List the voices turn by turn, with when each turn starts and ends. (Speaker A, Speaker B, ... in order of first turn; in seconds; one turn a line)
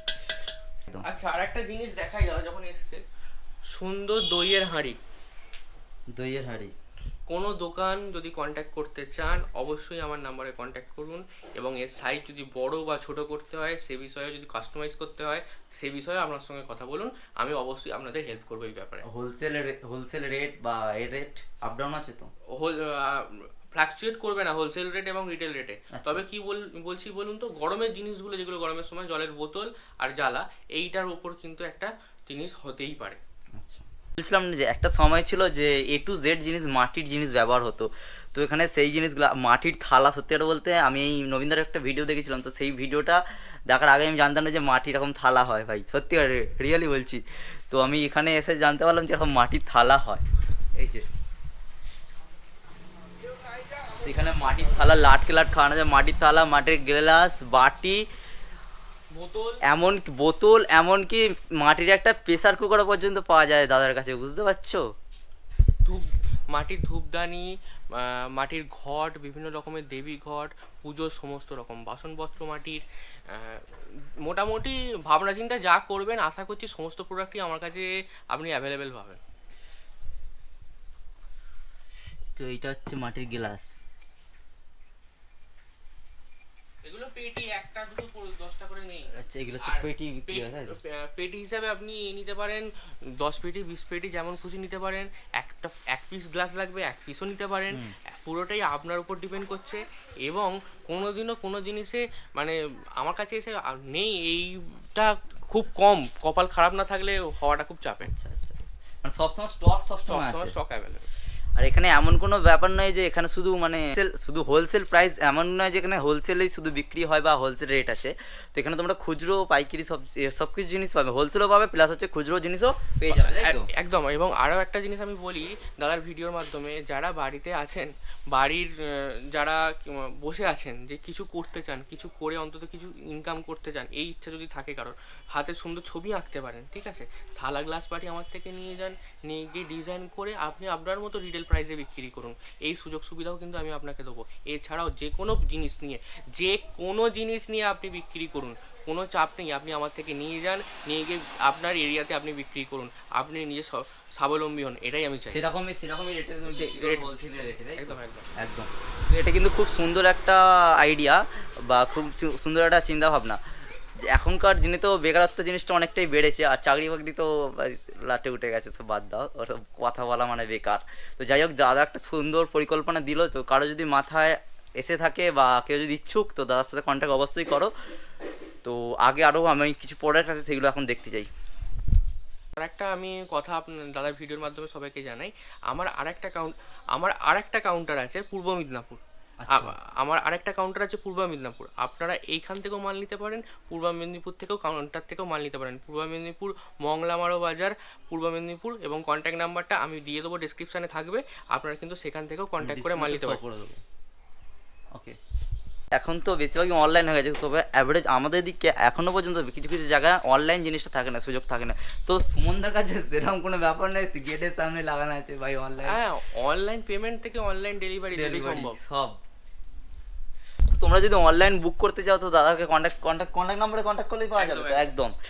Speaker A: 1.0-3.0
Speaker A: 3.7-5.0
Speaker B: 6.1-6.8
Speaker A: 7.3-19.0
Speaker B: 19.0-22.3
Speaker A: 22.5-33.2
Speaker B: 25.9-26.2
Speaker B: 33.6-50.2
Speaker B: 50.7-51.0
Speaker B: 53.9-58.0
Speaker A: 59.1-59.6
Speaker B: 59.7-64.8
Speaker A: 65.8-79.2
Speaker B: 82.3-83.7
Speaker A: 86.8-108.1
Speaker B: 89.1-90.8
Speaker B: 97.7-98.0
Speaker B: 108.0-110.5
Speaker A: 110.1-111.1
Speaker B: 111.6-123.7
Speaker A: 123.1-155.4
Speaker B: 155.3-163.4
Speaker A: 156.5-158.3
Speaker B: 164.1-177.7
Speaker B: 178.6-181.3
Speaker A: 182.6-203.4
Speaker B: 189.4-189.7
Speaker B: 202.6-203.8
Speaker B: 205.9-216.0
Speaker A: 215.8-218.8
Speaker B: 218.1-219.2
Speaker B: 220.7-225.1
Speaker A: 224.3-224.9